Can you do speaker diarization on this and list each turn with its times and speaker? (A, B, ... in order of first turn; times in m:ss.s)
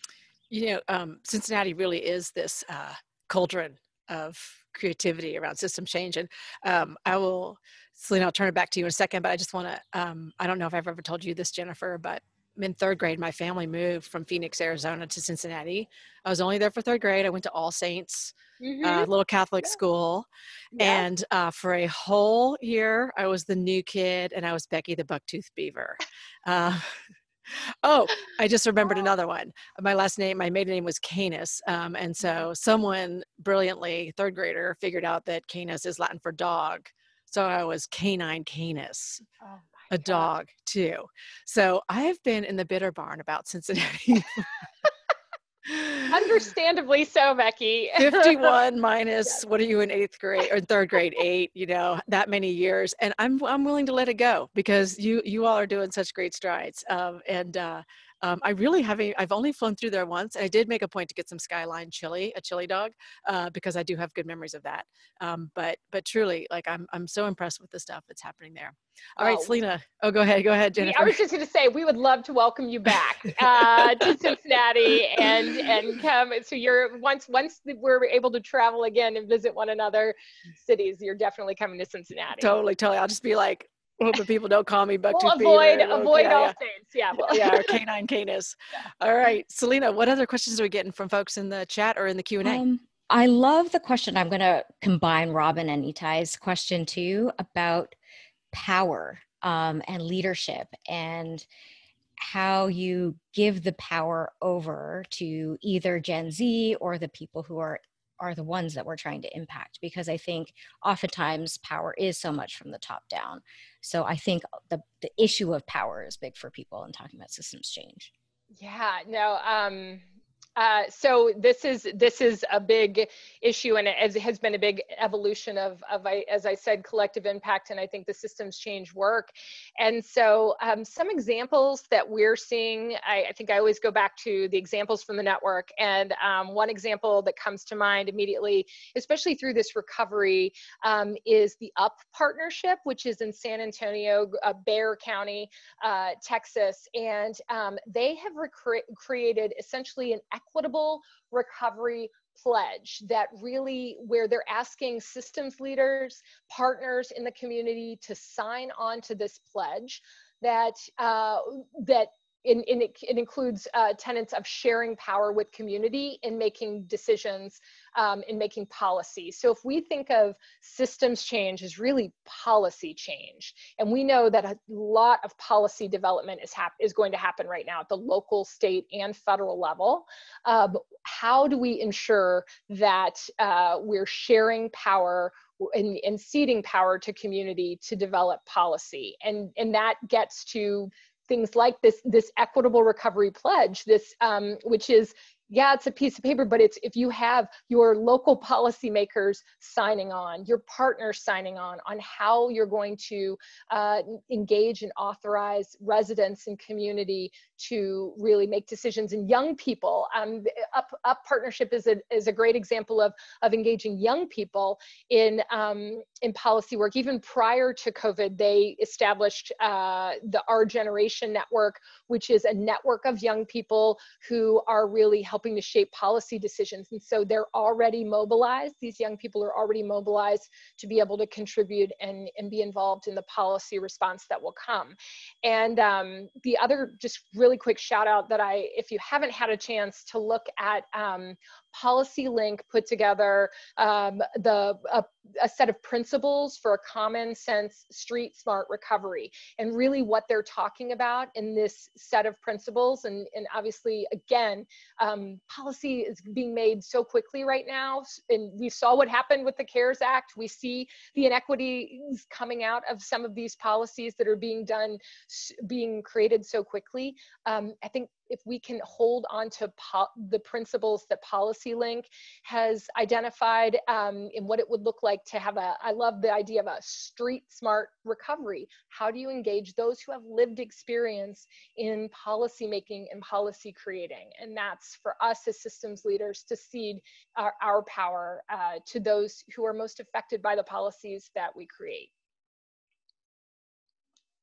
0:00.5-0:20.3 A
0:18.6-0:19.1 B
0:20.7-0:21.0 B
0:20.8-0:27.0 A
0:27.5-0:39.2 A
0:39.4-0:40.3 B
0:39.9-0:44.5 A
0:45.6-0:46.4 A
0:46.1-0:48.5 B
0:48.0-1:11.2 A
1:09.2-1:09.6 B
1:10.8-1:22.5 B
1:22.4-1:26.6 A
1:25.1-1:27.8 B
1:27.3-1:32.6 A
1:32.4-1:38.0 C
1:38.5-1:41.5 C
1:42.2-1:58.1 C
1:58.6-2:00.0 B
2:00.6-4:52.1 B